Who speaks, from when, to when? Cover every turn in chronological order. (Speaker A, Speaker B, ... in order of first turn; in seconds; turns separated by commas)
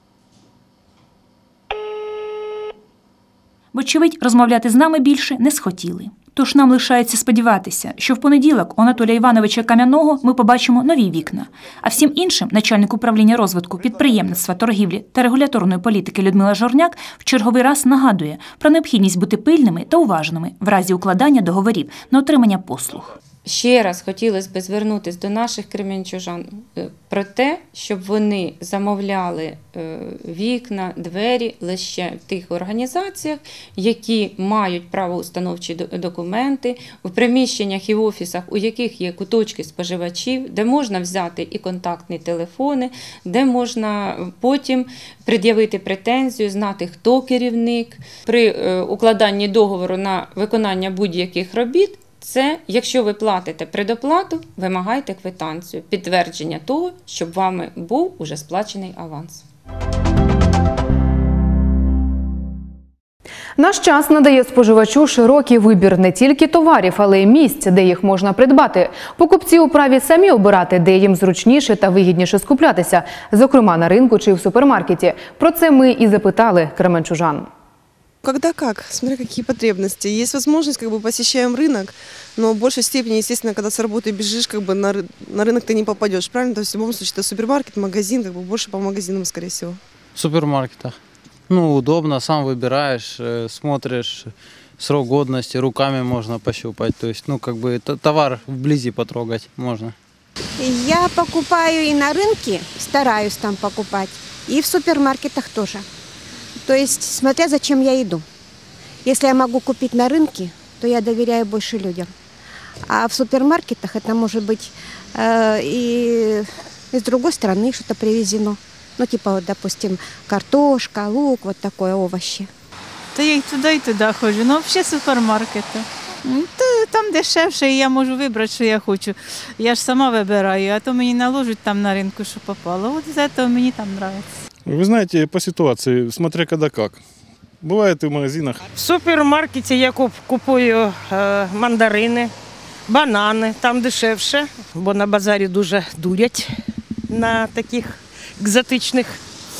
Speaker A: 3.7-23.1, Speaker B: 23.4-59.4, Speaker C: 63.6-77.5, Speaker D: 78.2-89.8, Speaker E: 90.2-90.8, Speaker F: 90.2-90.9, Speaker F: 91.6-94.2, Speaker E: 93.1-94.0, Speaker E: 94.8-99.7, Speaker F: 94.9-99.9, Speaker G: 100.6-105.8, Speaker G: 106.6-108.2, Speaker G: 109.0-112.1, Speaker G: 112.8-122.5, Speaker H: 123.1-134.2, Speaker E: 134.7-137.0, Speaker E: 137.6-138.6, Speaker I: 138.8-142.3, Speaker I: 142.9-146.5, Speaker I: 147.1-149.2